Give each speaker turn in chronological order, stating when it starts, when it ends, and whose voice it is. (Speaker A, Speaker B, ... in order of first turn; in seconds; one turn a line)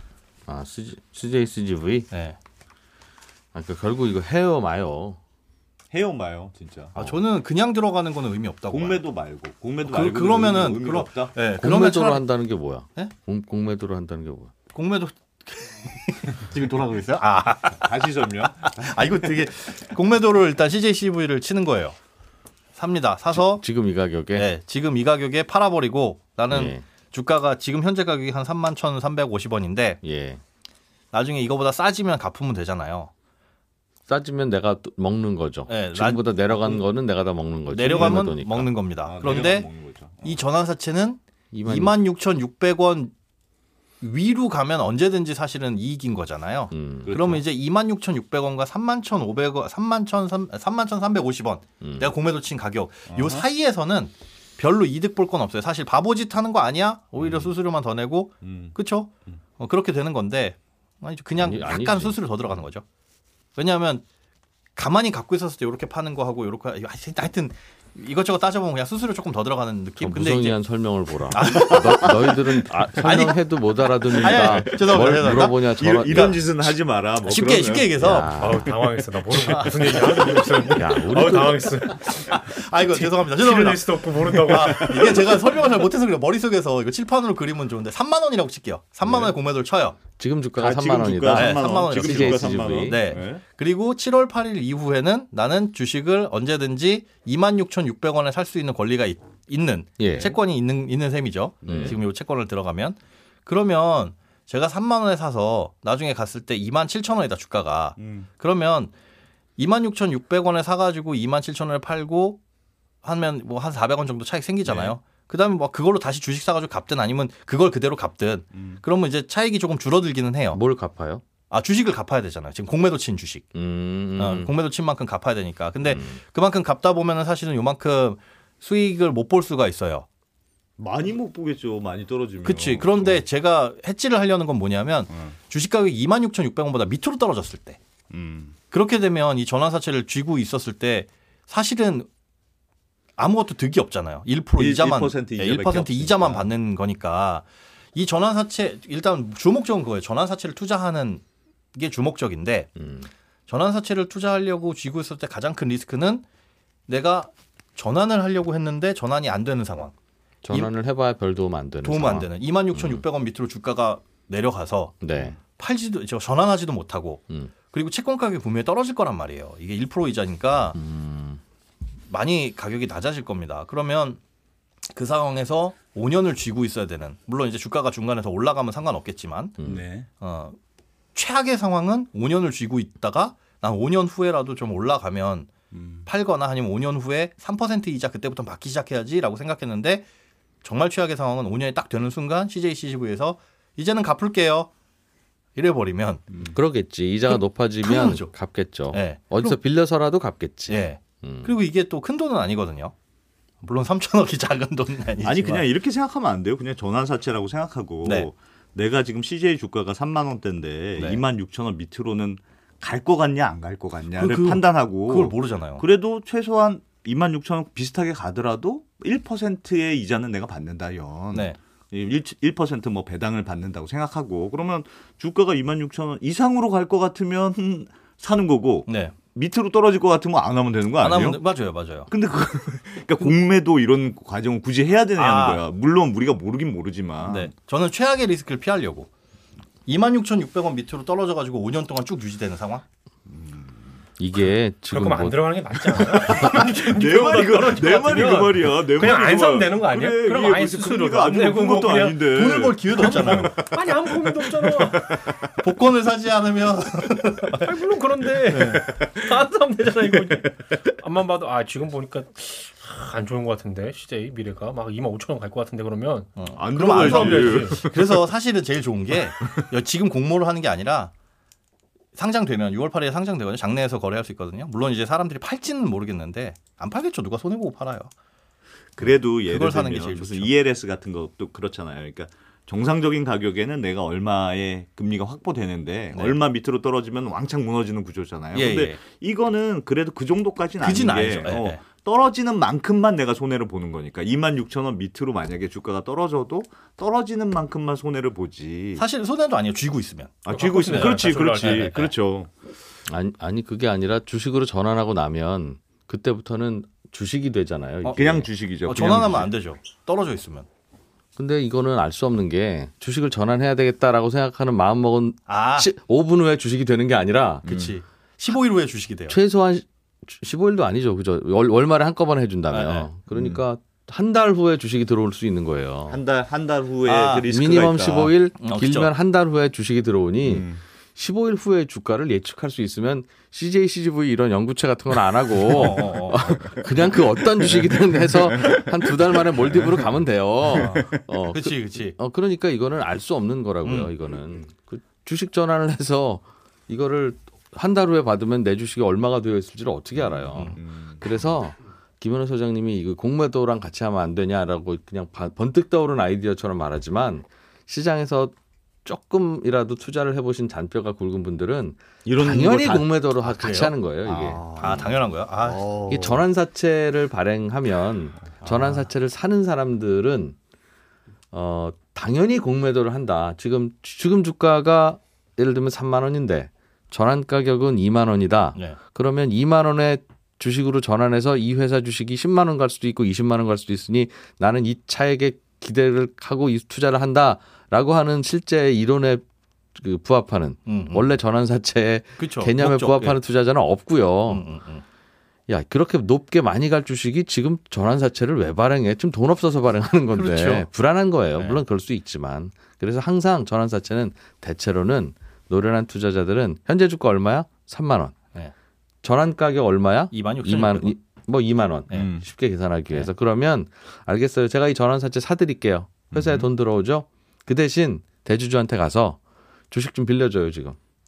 Speaker A: 0.5-2.1
Speaker B: 2.1-2.4
Speaker A: 3.5-5.2
Speaker C: 5.9-7.0
Speaker B: 6.9-9.0
Speaker C: 8.7-11.3
Speaker B: 9.8-12.2
Speaker A: 11.6-14.5
Speaker B: 14.7-18.0
Speaker C: 17.8-18.9
Speaker B: 18.5-21.9
Speaker B: 22.8-23.6
Speaker A: 23.3-24.5
Speaker B: 24.3-30.0
Speaker A: 26.5-26.8
Speaker A: 30.0-30.4
Speaker B: 31.1-33.1
Speaker A: 34.1-38.7
Speaker B: 35.7-36.8
Speaker B: 37.7-39.7
Speaker C: 39.0-40.4
Speaker B: 40.2-43.1
Speaker A: 41.5-41.9
Speaker B: 44.0-62.8
Speaker A: 46.7-47.2
Speaker C: 47.0-47.4
Speaker A: 51.8-52.1
Speaker C: 53.1-53.4
Speaker C: 57.2-57.5
Speaker C: 58.4-58.7
Speaker A: 61.4-62.1
Speaker B: 63.5-64.0
Speaker B: 64.8-70.6
Speaker A: 70.0-76.4
Speaker B: 71.3-73.4
Speaker B: 74.1-76.4
Speaker C: 74.5-77.9
Speaker B: 77.2-78.6
Speaker A: 78.0-78.7
Speaker D: 78.4-85.4
Speaker B: 79.3-80.8
Speaker A: 80.8-81.8
Speaker B: 82.2-90.0
Speaker C: 84.6-85.1
Speaker A: 90.2-93.0
Speaker C: 90.5-93.4
Speaker B: 91.3-108.9
Speaker A: 100.0-100.4
Speaker C: 101.6-102.0
Speaker A: 101.7-102.0
Speaker C: 108.0-108.3
Speaker B: 109.6-112.4
Speaker B: 113.0-120.6
Speaker C: 114.6-114.9
Speaker A: 120.5-121.2
Speaker B: 121.5-123.5
Speaker A: 123.5-124.5
Speaker B: 124.2-130.1
Speaker A: 125.8-126.2
Speaker C: 130.8-133.2
Speaker B: 132.4-137.8
Speaker C: 138.1-138.6
Speaker B: 138.7-142.1
Speaker B: 143.2-151.2
Speaker C: 144.6-146.5
Speaker B: 151.7-152.7
Speaker A: 152.8-153.1
Speaker B: 153.5-156.2
Speaker B: 156.9-159.9
Speaker A: 160.4-163.0
Speaker B: 161.8-170.8
Speaker A: 165.0-165.4
Speaker A: 170.7-171.4
Speaker B: 172.1-174.2
Speaker B: 174.9-179.6
Speaker A: 179.6-179.8
Speaker C: 179.6-180.1
Speaker B: 180.2-180.6
Speaker B: 181.1-185.5
Speaker C: 185.7-186.1
Speaker B: 186.1-190.1
Speaker B: 190.6-194.7
Speaker B: 195.6-196.2
Speaker C: 196.3-196.6
Speaker A: 196.5-201.5
Speaker B: 197.3-198.3
Speaker B: 198.9-199.6
Speaker B: 200.7-202.9
Speaker B: 203.6-205.7
Speaker C: 205.2-231.4
Speaker B: 208.0-208.3
Speaker B: 214.2-215.8
Speaker B: 228.9-229.1
Speaker B: 231.0-232.1
Speaker C: 232.1-237.5
Speaker B: 235.2-235.6
Speaker B: 237.2-239.1
Speaker B: 239.8-242.8
Speaker C: 243.3-243.8
Speaker A: 244.2-245.4
Speaker D: 244.9-252.2
Speaker C: 246.1-253.5
Speaker A: 246.2-246.5
Speaker B: 252.2-253.6
Speaker D: 252.9-255.2
Speaker C: 254.2-255.4
Speaker B: 255.6-257.7
Speaker D: 257.6-267.8
Speaker B: 258.5-258.8
Speaker B: 266.4-271.1
Speaker C: 266.5-268.1
Speaker B: 272.1-278.1
Speaker C: 278.9-299.0
Speaker B: 279.0-280.5
Speaker B: 288.5-289.0
Speaker B: 290.8-291.8
Speaker B: 299.0-300.3
Speaker C: 300.4-302.5
Speaker D: 300.5-302.1
Speaker A: 303.1-308.5
Speaker C: 308.1-309.5
Speaker B: 308.9-310.7
Speaker A: 311.4-317.7
Speaker B: 315.5-315.9
Speaker C: 317.6-317.9
Speaker B: 317.6-319.4
Speaker A: 319.3-326.2
Speaker B: 322.7-323.1
Speaker C: 323.3-323.6
Speaker C: 326.1-328.3
Speaker B: 327.0-327.4
Speaker A: 327.4-358.5
Speaker B: 328.6-329.1
Speaker C: 330.4-330.8
Speaker B: 335.7-336.5
Speaker C: 335.8-340.1
Speaker C: 340.7-341.2
Speaker B: 340.7-342.2
Speaker B: 343.8-344.1
Speaker C: 350.1-351.5
Speaker A: 359.0-365.1
Speaker C: 362.2-363.1
Speaker B: 363.4-363.9
Speaker C: 364.2-366.4
Speaker B: 364.8-365.8
Speaker A: 366.1-370.6
Speaker B: 368.6-369.1
Speaker A: 371.5-389.4
Speaker A: 389.9-394.6
Speaker B: 390.9-391.2
Speaker B: 392.4-393.4
Speaker B: 394.5-395.0
Speaker A: 395.7-408.4
Speaker B: 400.3-400.9
Speaker B: 401.6-401.8
Speaker A: 409.2-419.4
Speaker B: 410.3-411.1
Speaker C: 412.1-412.4
Speaker C: 416.3-416.7
Speaker A: 419.9-421.0